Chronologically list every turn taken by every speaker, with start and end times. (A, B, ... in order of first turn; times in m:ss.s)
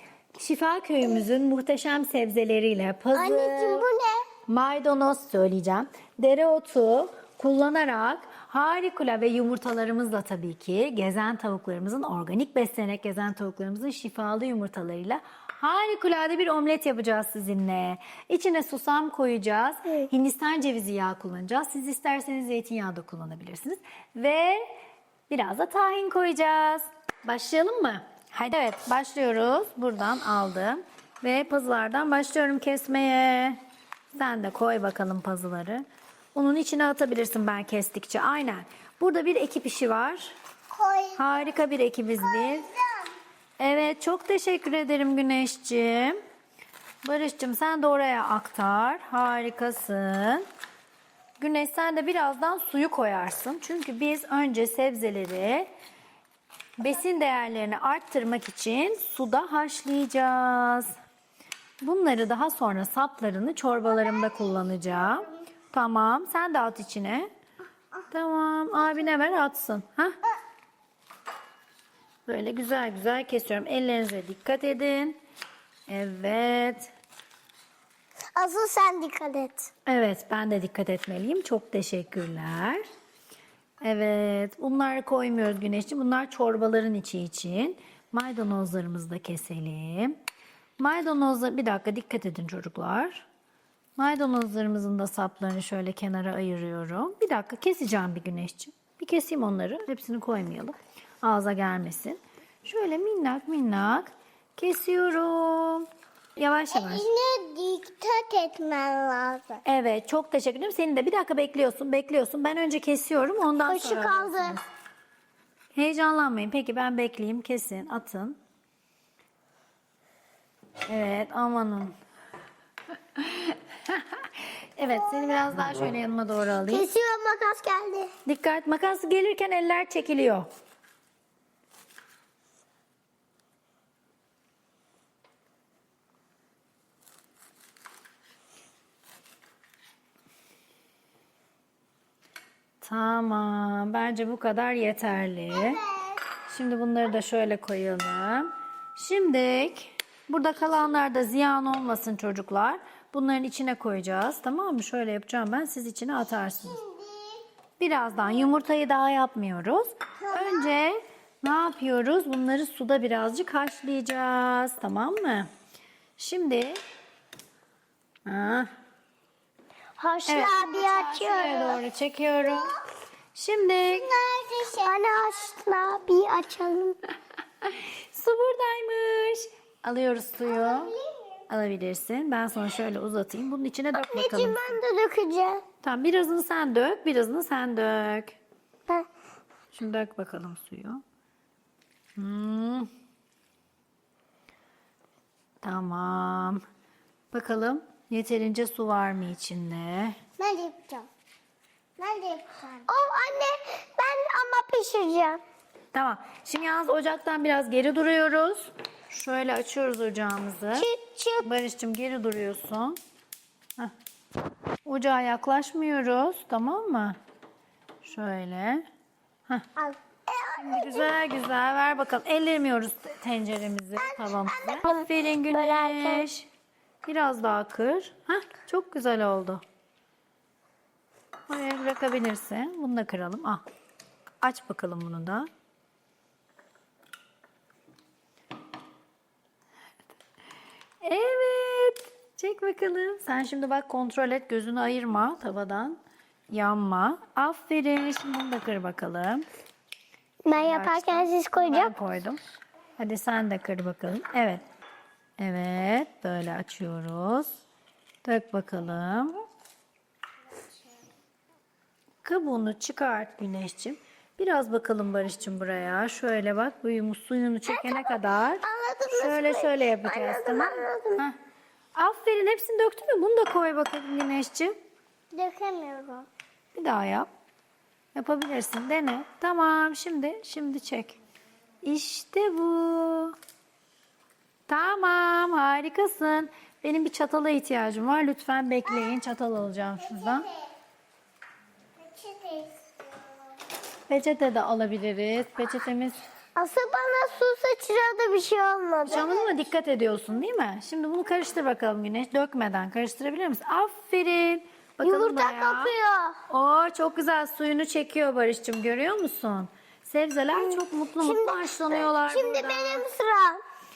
0:00.4-0:03.9 A
0:03.1-0:04.3 B
0:04.5-0:24.6 A
0:25.3-0:33.6 A
0:34.1-0:40.4 A
0:40.7-0:41.2 B
0:41.2-0:42.7 A
0:42.4-0:43.1 B
0:43.6-0:46.2 A
0:47.0-0:50.5 A
0:51.4-0:55.7 A
0:56.8-1:01.0 A
1:01.8-1:07.3 A
1:08.1-1:10.2 A
1:12.3-1:15.2 A
1:15.9-1:16.9 A
1:18.4-1:19.7 B
1:19.9-1:22.8 A
1:23.8-1:30.2 A
1:30.8-1:33.3 A
1:34.0-1:47.1 A
1:46.7-1:49.6 B
1:49.6-1:54.6 A
1:53.7-1:54.6 B
1:55.7-1:58.4 A
2:00.9-2:02.0 A
2:03.2-2:06.9 A
2:06.7-2:08.1 B
2:08.3-2:10.5 A
2:22.8-2:25.8 A
2:25.7-2:26.1 B
2:26.5-2:36.8 A
2:36.8-2:37.3 B
2:37.8-2:45.5 A
2:40.3-2:40.6 B
2:46.2-2:46.8 A
2:48.3-2:48.7 A
2:50.0-2:51.8 B
2:50.3-2:52.8 A
2:53.3-2:54.1 A
2:53.9-2:57.0 B
2:57.6-3:00.9 A
3:00.7-3:01.0 B
3:01.5-3:04.8 A
3:03.9-3:05.6 B
3:05.8-3:08.4 A
3:09.7-3:11.0 A
3:12.2-3:12.9 A
3:15.6-3:16.6 A
3:17.3-3:20.2 A
3:20.4-3:21.1 B
3:22.0-3:25.4 B
3:25.9-3:30.9 A
3:30.8-3:31.5 B
3:31.4-3:33.0 A
3:34.8-3:37.2 A
3:38.0-3:38.8 A
3:39.8-3:41.2 B
3:40.6-3:46.5 A
3:44.2-3:46.3 B
3:47.0-3:49.6 A
3:51.5-3:53.6 A
3:54.4-3:55.5 A
4:01.0-4:06.0 A
4:06.5-4:09.4 A
4:10.4-4:11.9 B
4:10.6-4:12.4 A
4:13.0-4:14.6 A
4:15.4-4:17.6 A
4:18.2-4:19.4 A
4:22.2-4:31.4 A
4:27.7-4:31.2 B
4:32.0-4:34.7 A
4:35.3-4:36.3 B
4:36.7-4:37.3 A
4:38.2-4:41.2 A
4:41.8-4:43.4 A
4:44.7-4:50.5 A
4:52.0-4:52.8 B
4:54.1-4:56.2 A
4:56.6-4:59.3 B
4:59.1-5:05.9 A
5:05.0-5:06.4 B
5:06.5-5:13.0 A
5:10.6-5:13.6 B